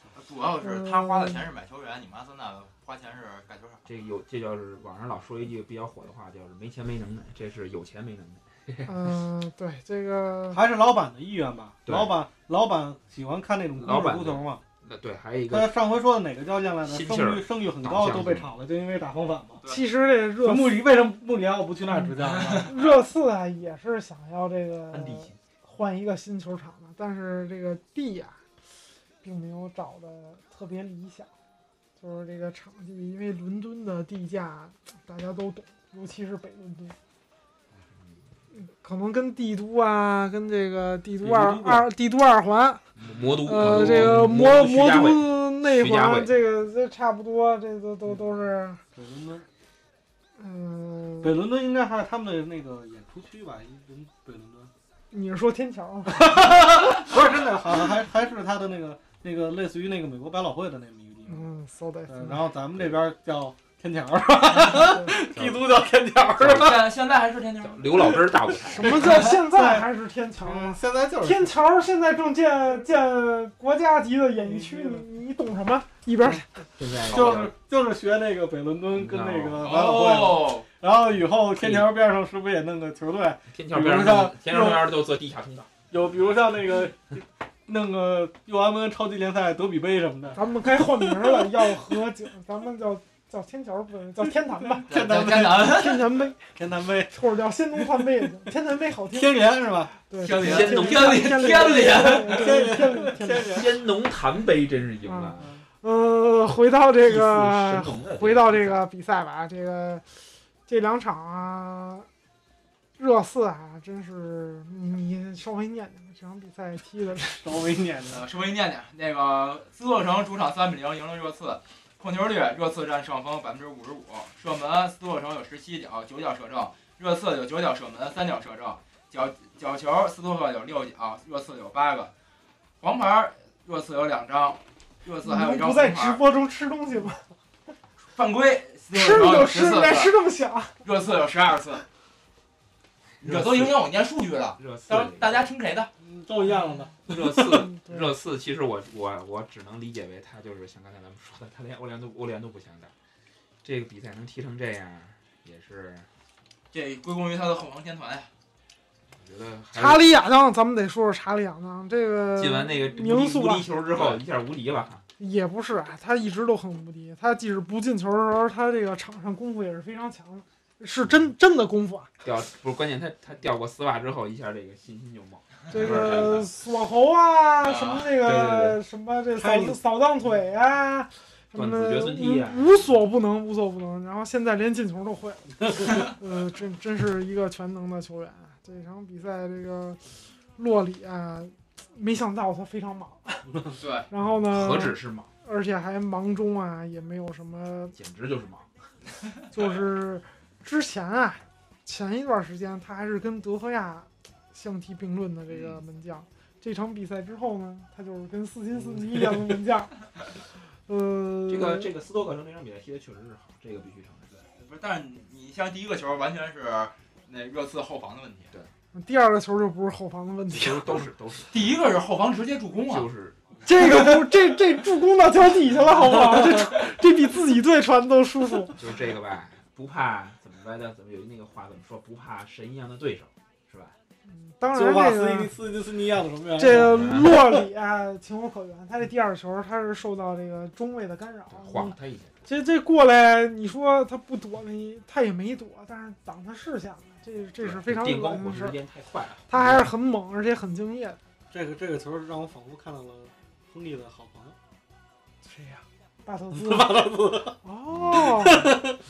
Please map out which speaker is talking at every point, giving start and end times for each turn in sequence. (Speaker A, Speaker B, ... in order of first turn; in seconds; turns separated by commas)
Speaker A: 0.1-3.8, Speaker B: 0.6-1.4, Speaker C: 3.9-8.9, Speaker B: 8.8-10.6, Speaker D: 10.5-14.6, Speaker C: 11.8-12.2, Speaker C: 13.8-15.8, Speaker D: 15.5-19.6, Speaker C: 16.8-18.5, Speaker B: 19.6-20.8, Speaker D: 20.4-22.7, Speaker A: 22.4-22.6, Speaker B: 22.6-28.4, Speaker C: 24.9-25.4, Speaker B: 29.2-31.3, Speaker B: 32.0-37.0, Speaker C: 38.0-38.2, Speaker B: 38.5-42.8, Speaker D: 41.2-41.9, Speaker C: 43.0-46.3, Speaker B: 43.4-48.8, Speaker D: 43.7-44.1, Speaker D: 48.9-49.5, Speaker B: 50.4-51.4, Speaker D: 51.2-54.7, Speaker B: 55.1-57.0, Speaker D: 56.1-61.5, Speaker B: 61.2-62.5, Speaker D: 62.1-66.9, Speaker B: 64.7-65.2, Speaker C: 65.3-65.7, Speaker C: 66.3-66.9, Speaker A: 66.4-68.3, Speaker C: 67.6-69.0, Speaker B: 68.5-76.5, Speaker D: 68.7-71.5, Speaker D: 74.4-75.0, Speaker C: 76.8-77.5, Speaker D: 77.0-84.9, Speaker A: 77.1-77.4, Speaker C: 78.9-79.7, Speaker A: 79.6-80.7, Speaker C: 81.5-81.9, Speaker C: 83.5-85.7, Speaker D: 85.9-90.4, Speaker B: 90.3-94.9, Speaker D: 94.8-95.9, Speaker A: 94.9-96.0, Speaker B: 95.6-96.5, Speaker D: 96.5-97.1, Speaker B: 97.1-103.6, Speaker D: 99.1-99.9, Speaker A: 100.2-102.6, Speaker C: 100.3-101.4, Speaker D: 101.9-103.8, Speaker C: 103.4-105.5, Speaker B: 105.0-110.0, Speaker C: 107.0-108.8, Speaker B: 110.7-112.1, Speaker B: 113.0-117.5, Speaker D: 117.4-118.2, Speaker A: 118.1-132.1, Speaker A: 132.8-136.2, Speaker B: 135.2-137.2, Speaker A: 138.1-140.1, Speaker B: 138.9-140.7, Speaker A: 140.8-141.8, Speaker C: 143.2-143.8, Speaker A: 143.2-145.9, Speaker C: 144.6-145.5, Speaker D: 146.0-147.0, Speaker C: 147.1-152.9, Speaker B: 147.2-148.1, Speaker C: 153.6-156.1, Speaker A: 156.7-158.3, Speaker C: 159.2-160.1, Speaker B: 159.7-163.8, Speaker C: 162.3-165.0, Speaker A: 163.9-164.2, Speaker B: 165.2-172.1, Speaker C: 172.2-176.4, Speaker B: 175.7-190.0, Speaker A: 177.6-178.1, Speaker C: 178.2-178.8, Speaker D: 179.4-179.8, Speaker C: 181.5-182.9, Speaker B: 190.6-197.9, Speaker A: 193.8-194.1, Speaker C: 194.5-195.3, Speaker C: 197.9-198.7, Speaker B: 199.5-210.0, Speaker B: 210.9-211.9, Speaker C: 211.5-214.4, Speaker A: 214.3-218.5, Speaker B: 218.9-221.1, Speaker C: 220.5-221.7, Speaker A: 221.5-223.1, Speaker C: 222.8-223.4, Speaker B: 223.6-228.8, Speaker C: 228.8-233.9, Speaker B: 234.2-235.5, Speaker D: 234.7-237.4, Speaker B: 236.6-248.8, Speaker C: 236.8-237.3, Speaker C: 241.5-242.4, Speaker C: 247.6-249.9, Speaker B: 249.5-251.2, Speaker D: 251.5-254.6, Speaker B: 255.4-258.8, Speaker D: 256.5-257.6, Speaker C: 257.9-258.2, Speaker D: 258.1-258.9